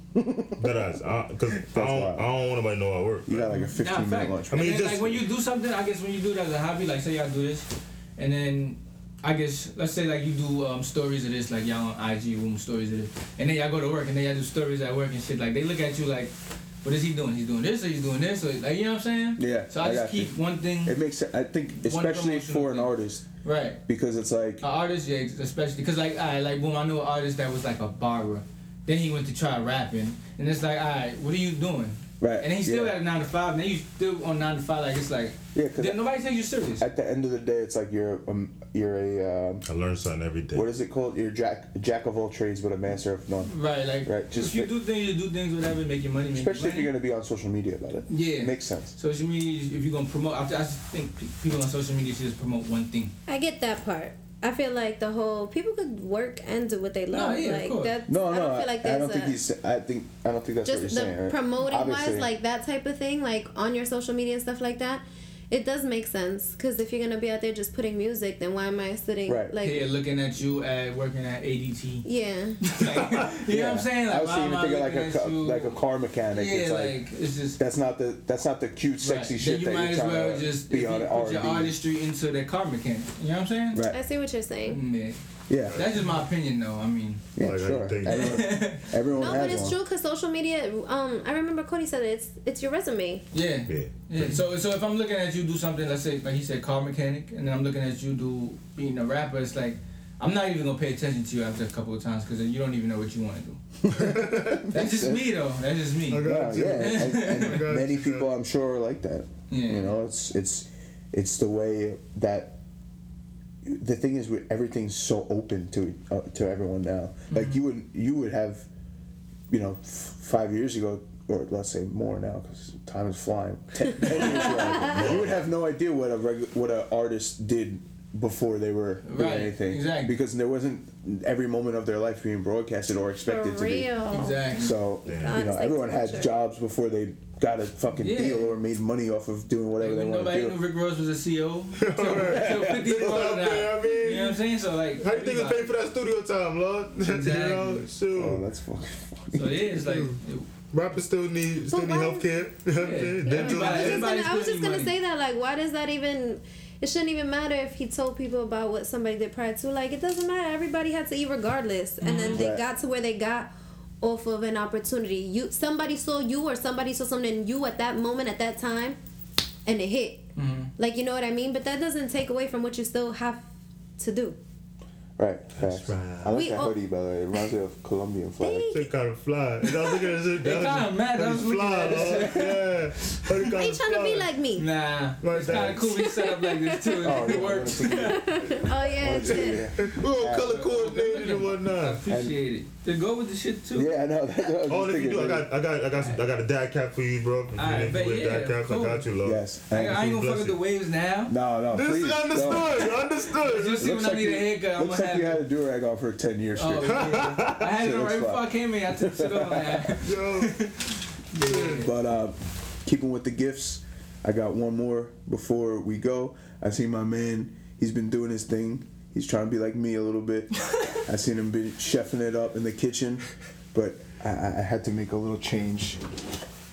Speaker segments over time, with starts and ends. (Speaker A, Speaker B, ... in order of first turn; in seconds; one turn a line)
Speaker A: 0.1-0.8
Speaker B: 0.6-3.6
Speaker A: 1.5-2.3
Speaker A: 3.3-4.9
Speaker C: 3.5-21.0
Speaker B: 4.5-5.2
Speaker A: 19.4-23.3
Speaker C: 21.8-23.8
Speaker A: 23.9-24.6
Speaker C: 24.6-36.9
Speaker A: 32.2-33.0
Speaker A: 35.5-36.1
Speaker A: 36.8-39.6
Speaker B: 39.6-40.7
Speaker A: 40.5-44.7
Speaker C: 43.5-46.9
Speaker A: 46.3-49.0
Speaker C: 48.1-53.1
Speaker D: 53.3-59.4
Speaker C: 57.1-58.0
Speaker A: 58.1-62.3
Speaker D: 60.6-69.9
Speaker A: 69.3-69.6
Speaker C: 69.6-72.1
Speaker D: 72.0-72.6
Speaker C: 72.6-75.8
Speaker A: 73.3-77.0
Speaker C: 76.3-77.6
Speaker A: 77.6-81.8
Speaker C: 79.0-83.8
Speaker A: 83.7-84.0
Speaker D: 83.9-84.8
Speaker C: 84.7-87.2
Speaker A: 85.5-85.8
Speaker B: 85.7-86.1
Speaker A: 87.4-89.8
Speaker B: 87.4-88.5
Speaker C: 88.0-89.0
Speaker D: 89.1-93.3
Speaker B: 89.3-89.6
Speaker C: 93.3-103.6
Speaker B: 93.7-94.4
Speaker A: 103.8-105.4
Speaker B: 104.0-104.6
Speaker C: 104.7-107.6
Speaker B: 106.1-108.3
Speaker A: 106.2-112.6
Speaker C: 109.5-110.0
Speaker A: 113.6-118.7
Speaker C: 117.3-117.6
Speaker A: 119.5-133.9
Speaker B: 124.1-125.5
Speaker D: 124.7-125.0
Speaker C: 129.1-130.1
Speaker D: 133.2-136.3
Speaker C: 134.1-134.8
Speaker A: 134.5-140.6
Speaker B: 135.1-135.5
Speaker C: 138.0-138.6
Speaker C: 139.8-145.6
Speaker B: 141.8-144.4
Speaker A: 142.2-143.4
Speaker B: 145.0-148.4
Speaker C: 147.1-147.9
Speaker A: 148.1-149.7
Speaker C: 149.3-150.5
Speaker B: 149.8-150.2
Speaker B: 150.7-154.1
Speaker D: 151.7-152.3
Speaker C: 152.8-154.9
Speaker D: 153.3-169.0
Speaker C: 162.0-162.4
Speaker A: 162.3-162.7
Speaker D: 169.7-173.4
Speaker C: 170.4-170.7
Speaker D: 174.0-174.4
Speaker A: 175.2-178.7
Speaker B: 175.6-176.4
Speaker D: 176.3-176.7
Speaker D: 178.4-178.9
Speaker B: 178.7-184.3
Speaker C: 180.4-182.6
Speaker A: 181.9-182.6
Speaker D: 183.5-184.7
Speaker C: 184.6-188.2
Speaker B: 185.2-185.9
Speaker D: 185.8-189.6
Speaker A: 187.0-190.6
Speaker B: 189.2-192.0
Speaker C: 190.4-193.9
Speaker A: 192.1-192.4
Speaker A: 193.7-195.5
Speaker B: 194.7-200.6
Speaker C: 197.6-199.1
Speaker A: 199.2-200.0
Speaker C: 199.7-201.3
Speaker A: 201.3-203.0
Speaker B: 201.7-203.9
Speaker C: 203.4-205.4
Speaker A: 203.8-209.9
Speaker C: 206.6-211.9
Speaker B: 206.8-207.6
Speaker B: 210.0-210.6
Speaker B: 211.4-211.8
Speaker A: 211.7-226.0